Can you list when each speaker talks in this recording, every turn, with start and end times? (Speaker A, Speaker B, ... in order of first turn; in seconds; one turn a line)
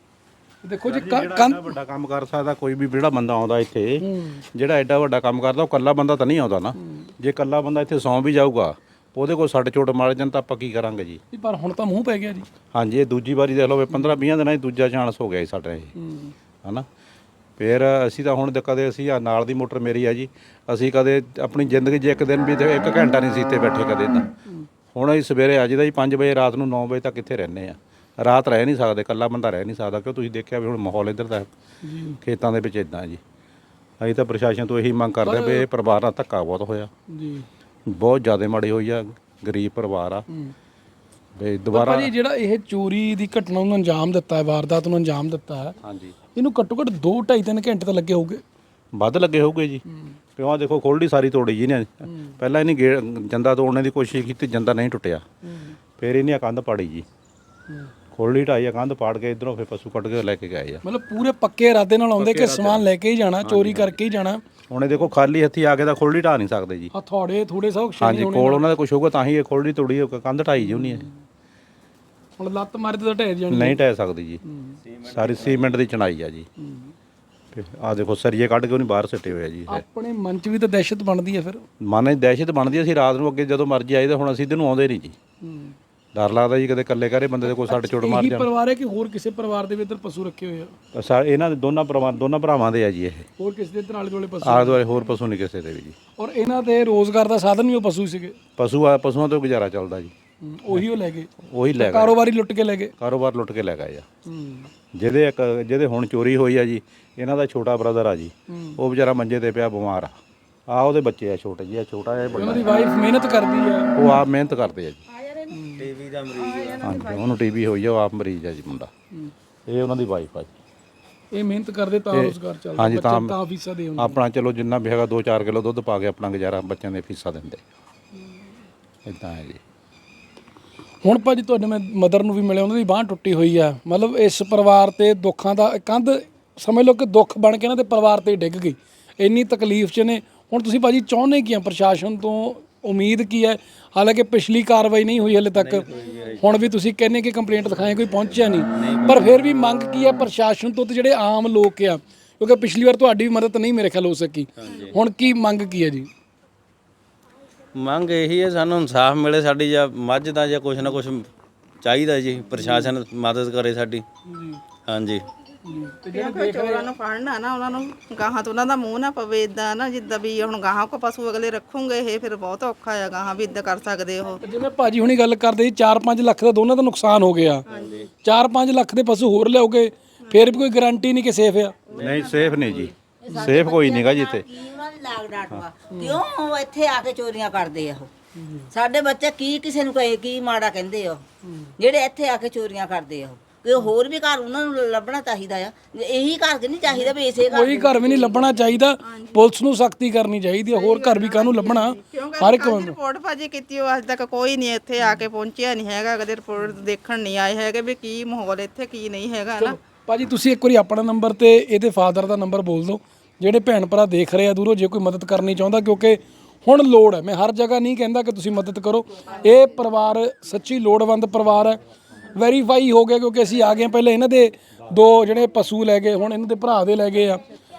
Speaker A: 0.6-1.7
Speaker B: 0.8-11.2
Speaker A: 4.0-4.4
Speaker A: 11.3-12.4
Speaker B: 12.7-15.9
Speaker A: 16.0-16.3
Speaker B: 17.6-24.3
Speaker B: 24.9-31.5
Speaker A: 31.8-32.2
Speaker B: 32.2-33.2
Speaker B: 34.0-36.9
Speaker A: 35.2-35.6
Speaker A: 37.1-37.5
Speaker B: 37.9-40.2
Speaker B: 41.4-42.1
Speaker A: 41.7-45.8
Speaker B: 45.8-46.1
Speaker A: 46.3-48.4
Speaker B: 48.9-49.8
Speaker B: 50.4-55.2
Speaker A: 55.5-55.8
Speaker B: 56.0-57.0
Speaker B: 58.1-60.8
Speaker A: 60.8-64.4
Speaker B: 62.2-62.8
Speaker B: 63.4-63.9
Speaker B: 64.7-66.9
Speaker A: 66.9-68.7
Speaker B: 68.0-71.1
Speaker A: 70.7-71.1
Speaker A: 72.4-73.8
Speaker B: 73.5-74.4
Speaker A: 74.5-74.8
Speaker C: 74.8-75.7
Speaker B: 75.1-76.5
Speaker A: 76.6-76.9
Speaker B: 77.5-79.8
Speaker A: 79.7-81.6
Speaker B: 81.8-85.2
Speaker A: 85.4-85.7
Speaker B: 86.1-88.5
Speaker A: 87.4-90.7
Speaker B: 90.9-93.2
Speaker A: 93.4-94.8
Speaker B: 94.4-96.0
Speaker A: 96.2-98.4
Speaker B: 98.6-100.1
Speaker A: 100.4-102.9
Speaker B: 101.4-102.2
Speaker B: 103.0-104.0
Speaker A: 104.3-104.7
Speaker B: 104.9-112.7
Speaker A: 108.5-108.8
Speaker A: 112.3-114.1
Speaker B: 114.0-115.0
Speaker A: 115.5-115.8
Speaker C: 115.7-117.1
Speaker B: 116.8-118.9
Speaker B: 119.7-120.5
Speaker A: 121.3-124.2
Speaker B: 122.1-123.4
Speaker B: 124.0-127.6
Speaker B: 129.1-129.6
Speaker A: 131.0-145.8
Speaker C: 145.5-146.7
Speaker A: 146.4-156.1
Speaker C: 148.7-149.3
Speaker C: 154.6-154.9
Speaker C: 157.8-161.3
Speaker C: 161.8-164.0
Speaker A: 162.6-162.9
Speaker A: 164.2-164.6
Speaker C: 164.9-165.2
Speaker A: 165.6-166.9
Speaker D: 166.1-174.4
Speaker A: 174.4-177.6
Speaker D: 177.7-178.0
Speaker A: 178.2-181.8
Speaker D: 180.2-180.6
Speaker D: 181.9-182.6
Speaker C: 181.9-182.9
Speaker B: 182.0-184.5
Speaker E: 183.2-188.1
Speaker A: 185.9-186.2
Speaker A: 188.3-188.7
Speaker E: 188.7-191.2
Speaker A: 191.4-191.7
Speaker E: 191.8-198.4
Speaker D: 196.9-197.1
Speaker A: 197.4-203.0
Speaker D: 199.0-199.5
Speaker D: 200.7-209.8
Speaker A: 209.6-221.8
Speaker A: 222.3-227.4